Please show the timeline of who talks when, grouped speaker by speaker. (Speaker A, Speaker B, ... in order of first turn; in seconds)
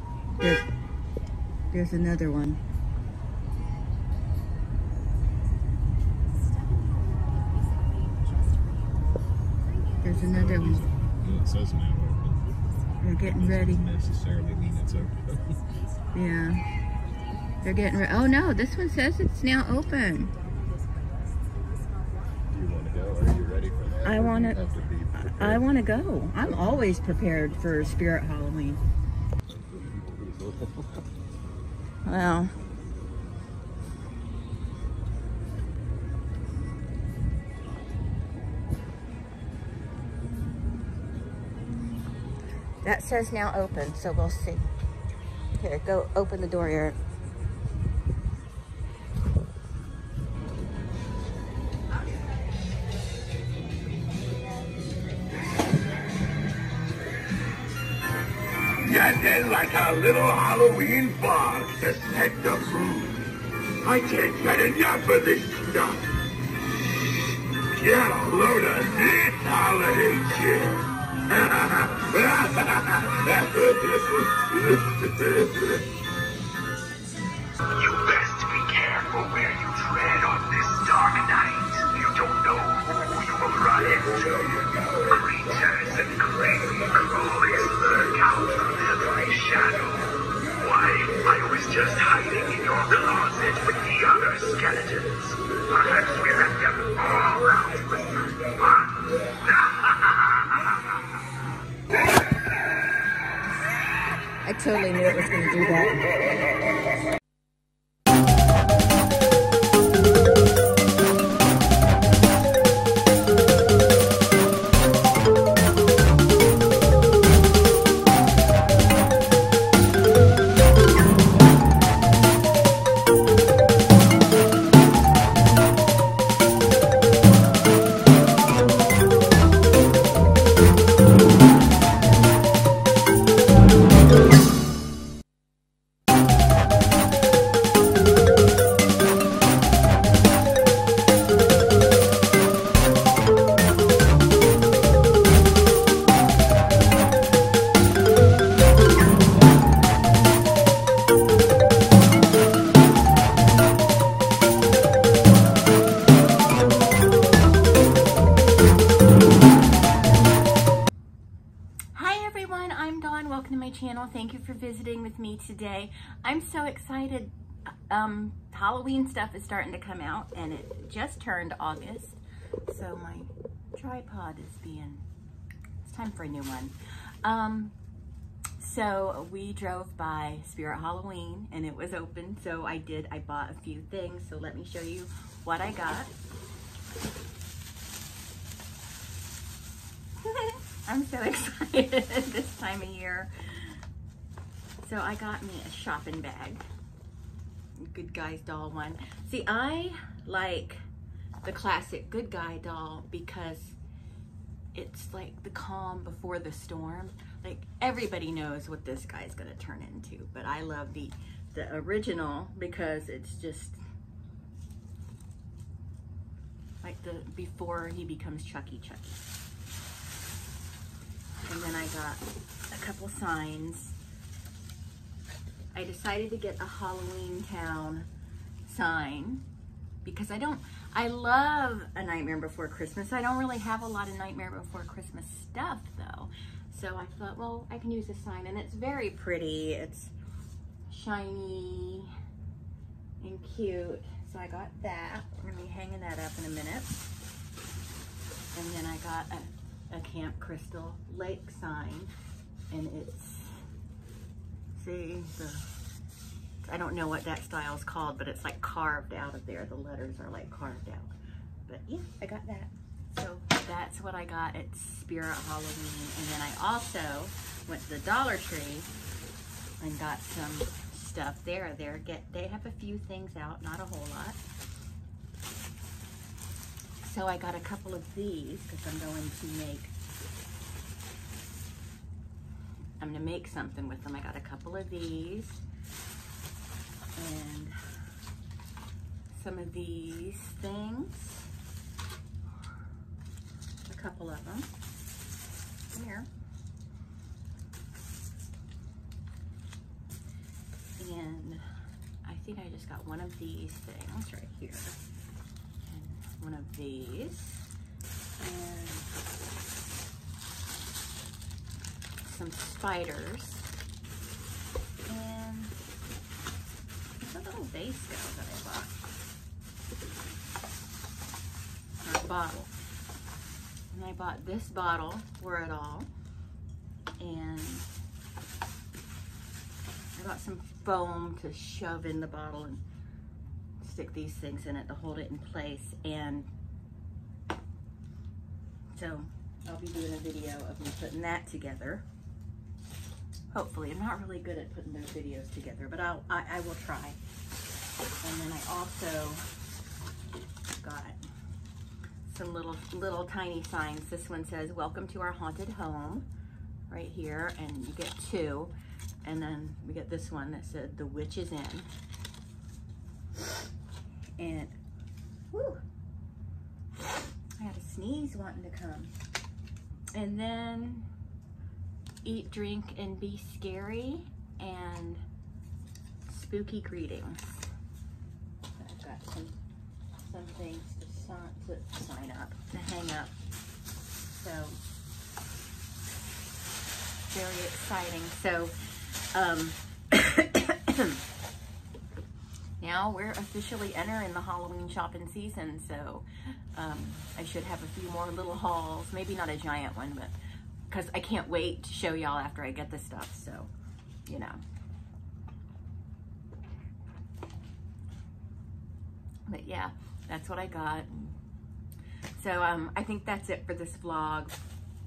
Speaker A: 0.4-0.7, 1.7-2.6, 10.0-10.8, 13.0-13.8, 16.1-16.6, 17.6-20.4, 24.0-24.6, 25.1-28.8, 32.1-32.5, 42.8-44.7, 45.6-47.0, 104.3-106.1, 161.9-167.3, 167.9-175.0, 175.8-177.8, 178.6-186.1, 190.2-193.8, 194.8-196.6, 197.8-200.8, 201.4-203.8, 204.7-213.8, 216.8-219.3, 221.5-224.0, 225.7-228.1, 228.7-229.4, 230.0-240.1, 240.9-242.1, 243.2-246.9, 248.5-252.1, 252.7-253.6, 254.8-255.7, 256.6-261.1, 261.7-268.9, 269.8-274.4, 277.0-279.9, 283.0-285.6, 287.2-287.8, 289.3-291.5, 293.9-294.7, 295.9-296.3, 301.0-301.6, 302.2-305.0, 305.8-307.7, 308.4-309.1, 312.2-313.7, 315.1-315.7, 317.2-319.0, 322.0-322.7, 323.9-326.1, 327.2-327.9, 330.1-332.8, 333.8-336.5, 338.9-342.0, 343.5-347.2, 348.2-349.4, 350.8-351.2, 352.2-356.3, 356.9-358.7, 359.2-361.9, 364.4-364.7, 365.5-365.8, 367.1-369.1, 370.1-371.1, 372.2-375.2, 376.3-377.5, 378.8-379.6, 380.2-383.4, 384.3-384.8, 387.3-391.2, 392.8-400.3, 400.9-403.7, 404.3-404.6, 409.5-411.4, 412.4-414.6
Speaker B: 10.3-12.5, 13.3-15.6, 22.5-25.6, 29.7-31.0, 59.0-61.4, 68.0-69.6
Speaker C: 58.8-63.2, 63.8-66.1, 67.8-70.8, 71.3-75.7, 77.7-98.8